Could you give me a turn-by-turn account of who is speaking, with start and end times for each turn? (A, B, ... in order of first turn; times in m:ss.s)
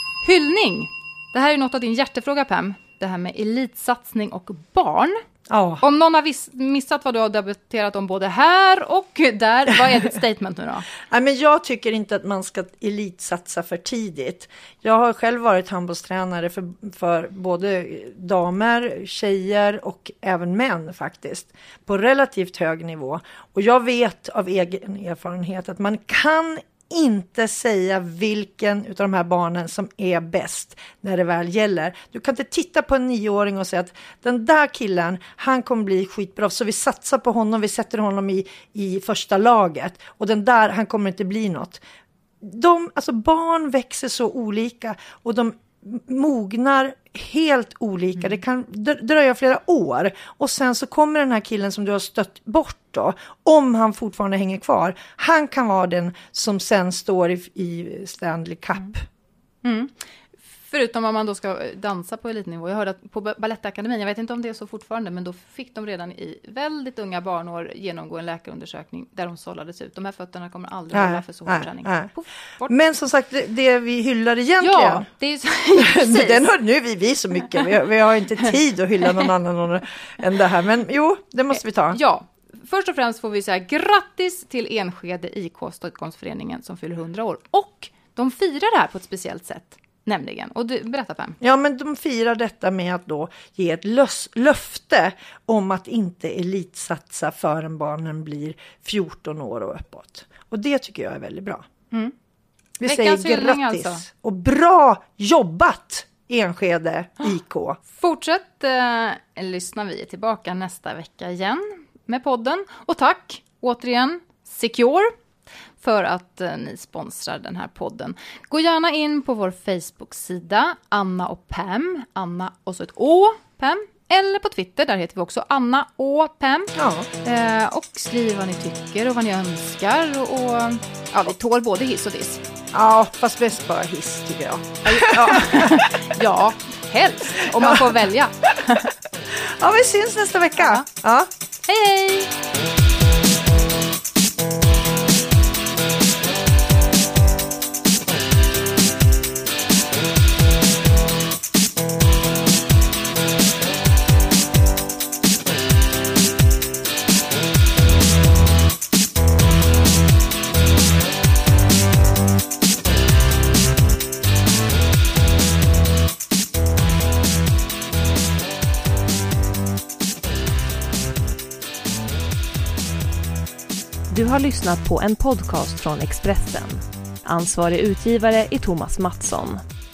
0:00.2-0:05.2 A
0:05.5-0:05.8 B
0:05.8-0:10.8 A
0:11.1-0:41.8 B
0:42.4-0:59.0 B
0:59.6-0:59.9 A
1:00.5-1:12.7 A
1:10.9-1:12.1 B
1:12.6-1:15.1 B
1:14.6-1:16.5 A
1:15.8-1:22.0 B
1:21.9-1:31.4 A
1:31.4-1:41.6 B
1:42.8-1:47.8 B
1:42.8-1:44.0 A
1:47.9-1:55.1 A
1:55.8-2:12.4 A
2:06.7-2:07.1 B
2:12.7-2:16.1 B
2:14.8-2:18.9 A
2:17.5-2:18.0 B
2:19.3-2:21.3 B
2:20.6-2:20.8 A
2:21.6-2:22.3 A
2:54.1-2:59.6 C